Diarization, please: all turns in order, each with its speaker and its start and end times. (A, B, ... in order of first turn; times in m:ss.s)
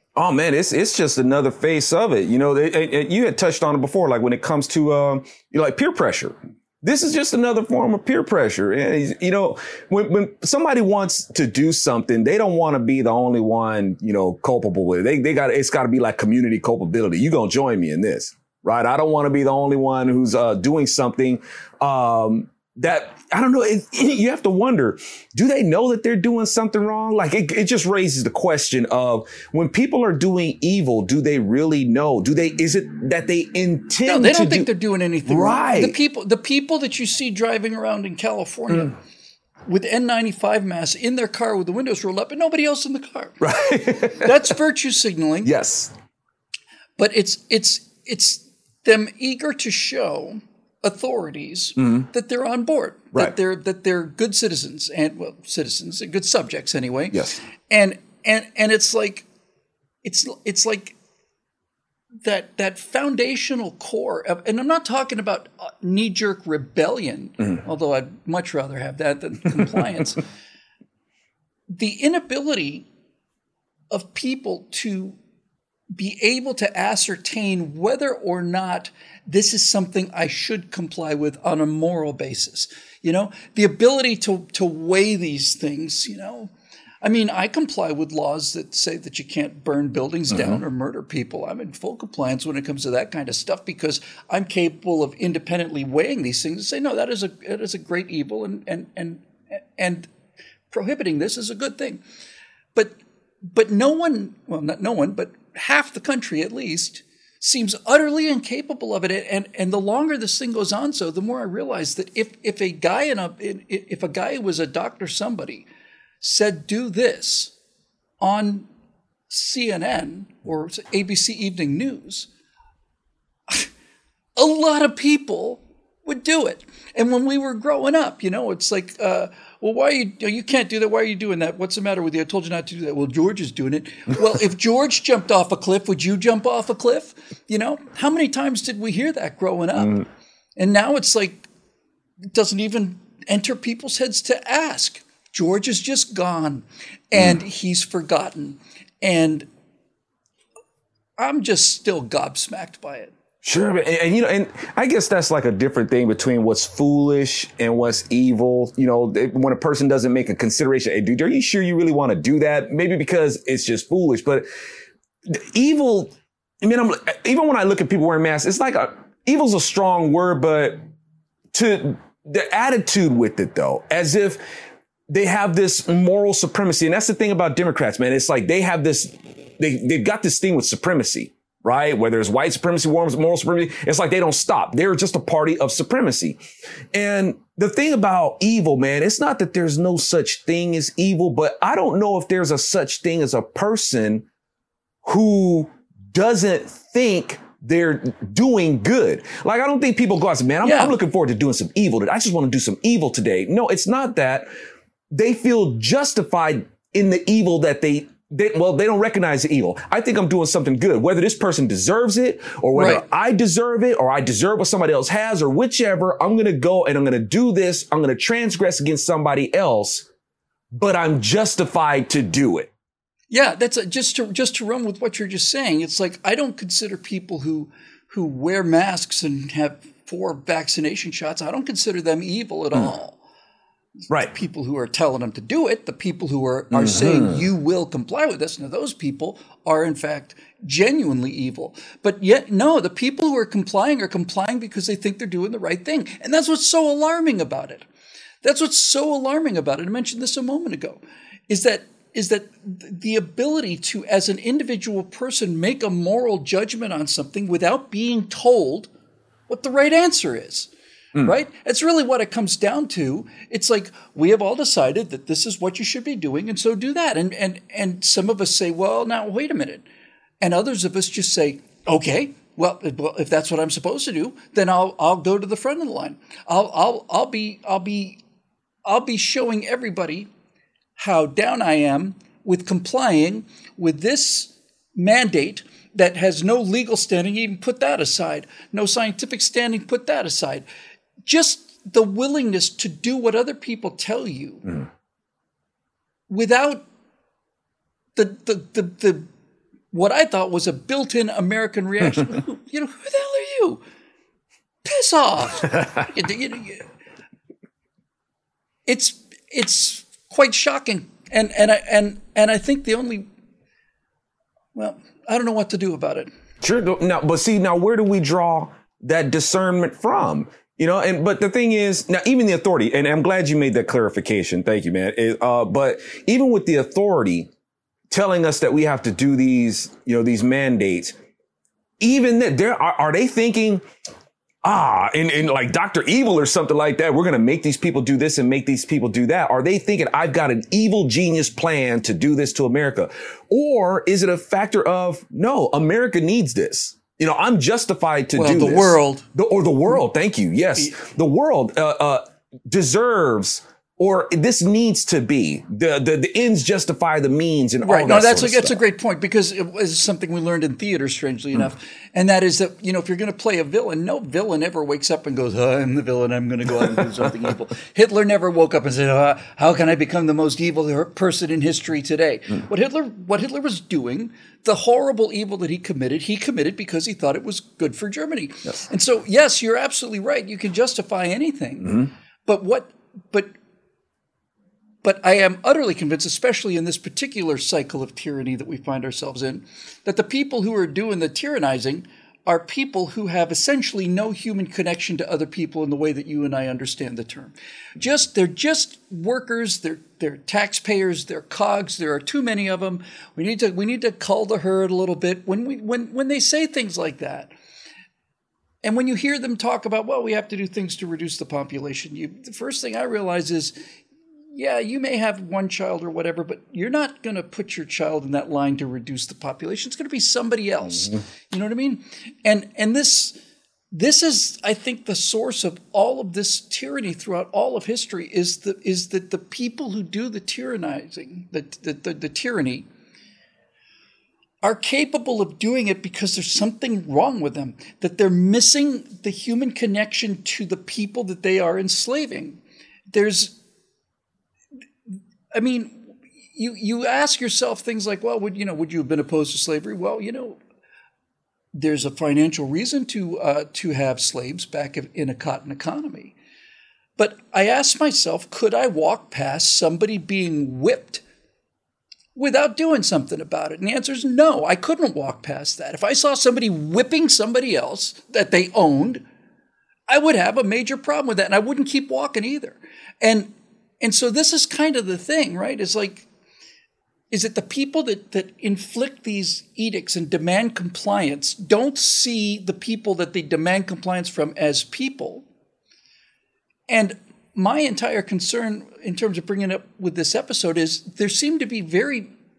0:00.2-0:34.7 A
0:34.0-0:39.0 B
0:35.3-0:36.0 A
0:39.7-0:45.5 B
0:43.4-0:44.4 A
0:45.4-0:45.9 A
0:47.0-0:59.3 B
0:51.8-0:52.0 A
1:00.0-1:01.0 B
1:02.2-1:10.2 B
1:11.7-1:12.9 B
1:13.9-1:15.2 B
1:16.0-1:26.5 B
1:27.0-1:40.1 B
1:40.7-1:42.0 B
1:42.8-1:55.7 B
1:56.2-1:57.5 B
1:58.2-1:58.7 B
1:59.3-2:02.3 B
2:04.4-2:20.1 B
2:20.6-2:21.5 B
2:22.3-2:29.5 B
2:31.2-2:33.1 B
2:33.4-2:44.5 A
2:45.3-2:50.8 A
2:51.5-2:54.4 A
2:55.1-3:06.4 A
3:06.9-3:14.2 A
3:15.0-3:24.5 A
3:20.6-3:21.0 B
3:25.1-3:40.1 A
3:32.8-3:33.0 B
3:40.7-3:42.7 A
3:43.3-3:53.2 B
3:54.1-4:07.9 B
3:56.7-3:57.5 A
4:08.4-4:18.9 B
4:19.5-4:29.8 B
4:30.4-4:38.2 B
4:38.9-4:40.3 B
4:41.0-4:50.6 B
4:51.2-4:54.8 B
4:56.3-4:56.9 B
4:58.2-4:59.3 B
4:59.9-5:03.8 B
5:04.8-5:06.9 B
5:08.9-5:13.3 B
5:14.8-5:16.3 B
5:16.6-5:27.5 A
5:28.1-5:31.2 A
5:32.0-5:33.8 A
5:34.6-5:58.8 A
5:48.4-5:49.3 B
5:57.8-6:23.5 B
6:25.0-6:47.5 B
6:48.8-6:53.8 B
6:54.5-7:03.4 B
7:03.9-7:12.9 B
7:14.6-7:23.6 B
7:25.1-7:30.6 B
7:31.7-7:36.4 B
7:37.2-7:41.2 B
7:42.4-7:49.2 B
7:50.1-7:53.5 B
7:54.0-7:56.3 B
7:57.3-8:05.5 B
8:06.9-8:12.3 B